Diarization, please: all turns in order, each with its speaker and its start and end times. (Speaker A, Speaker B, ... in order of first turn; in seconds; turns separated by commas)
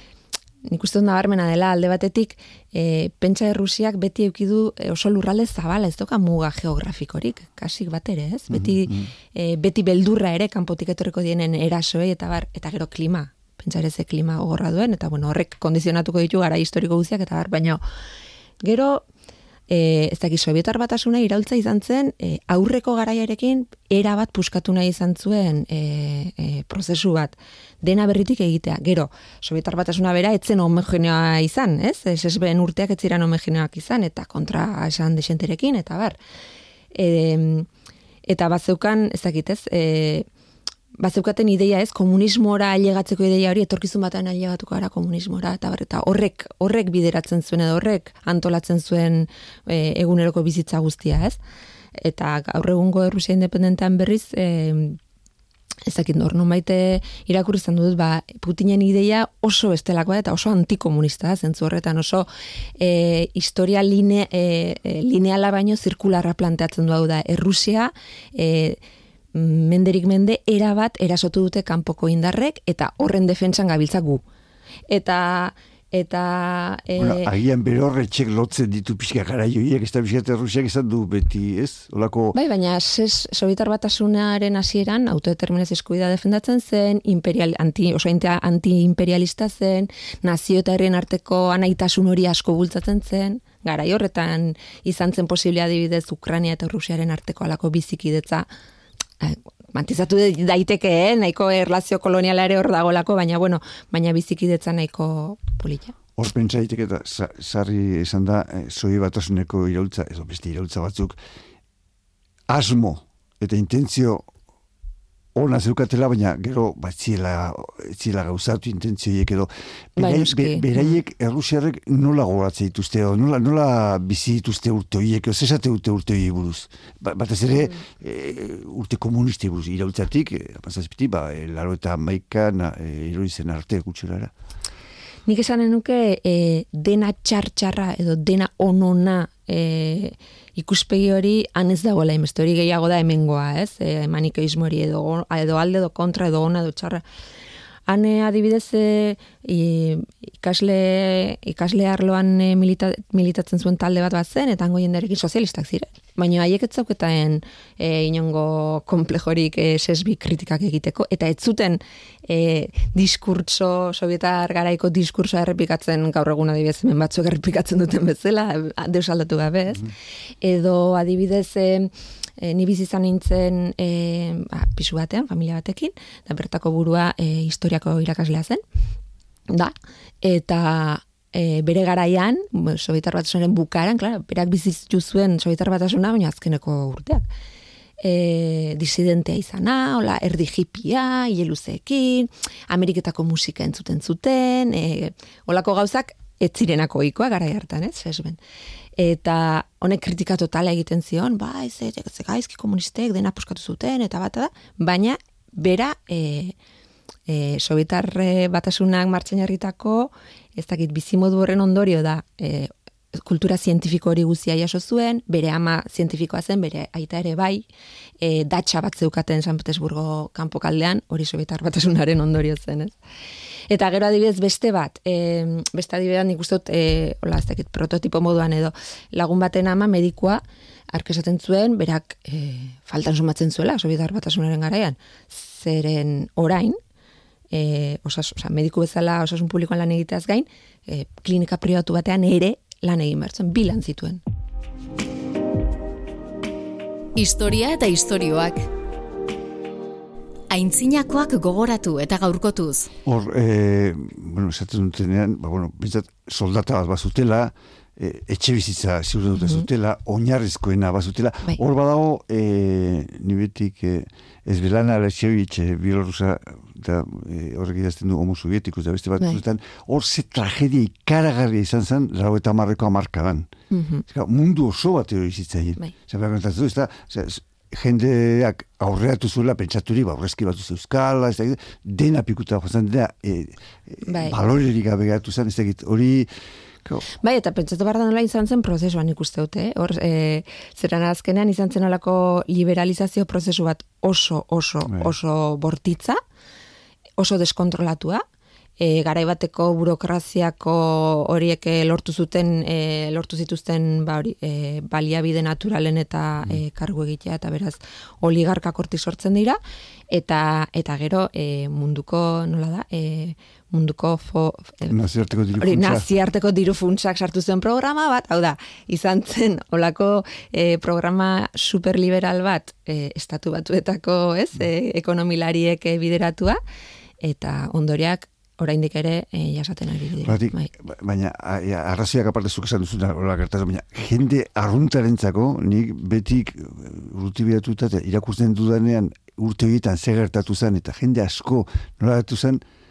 Speaker A: 0.6-17.8, Speaker B: 8.5-9.1, Speaker A: 18.6-19.1, Speaker A: 19.7-36.1, Speaker A: 36.9-37.7, Speaker A: 38.2-40.3, Speaker A: 41.0-51.4, Speaker A: 52.0-55.0, Speaker A: 55.9-62.3, Speaker A: 62.8-68.8, Speaker A: 69.3-74.2, Speaker A: 74.9-77.3, Speaker B: 77.0-82.3, Speaker A: 82.3-98.5, Speaker A: 99.2-106.0, Speaker B: 106.2-111.2, Speaker B: 112.5-114.3, Speaker B: 115.3-134.3, Speaker A: 120.0-121.0, Speaker A: 135.3-147.0, Speaker A: 147.9-178.6, Speaker A: 179.5-187.2, Speaker A: 188.0-198.4, Speaker A: 199.0-206.5, Speaker A: 207.3-217.6, Speaker A: 218.2-222.9, Speaker A: 223.7-230.4, Speaker A: 230.9-236.8, Speaker A: 237.5-244.2, Speaker C: 247.1-248.7, Speaker C: 250.5-252.9, Speaker B: 253.0-273.5, Speaker A: 259.4-259.7, Speaker A: 273.7-274.0, Speaker B: 274.1-286.3, Speaker A: 284.0-284.4, Speaker A: 287.2-296.2, Speaker A: 297.2-298.2, Speaker A: 298.8-309.6, Speaker A: 310.1-314.9, Speaker B: 314.9-316.1, Speaker A: 315.6-326.6, Speaker A: 327.2-330.7, Speaker B: 330.2-342.6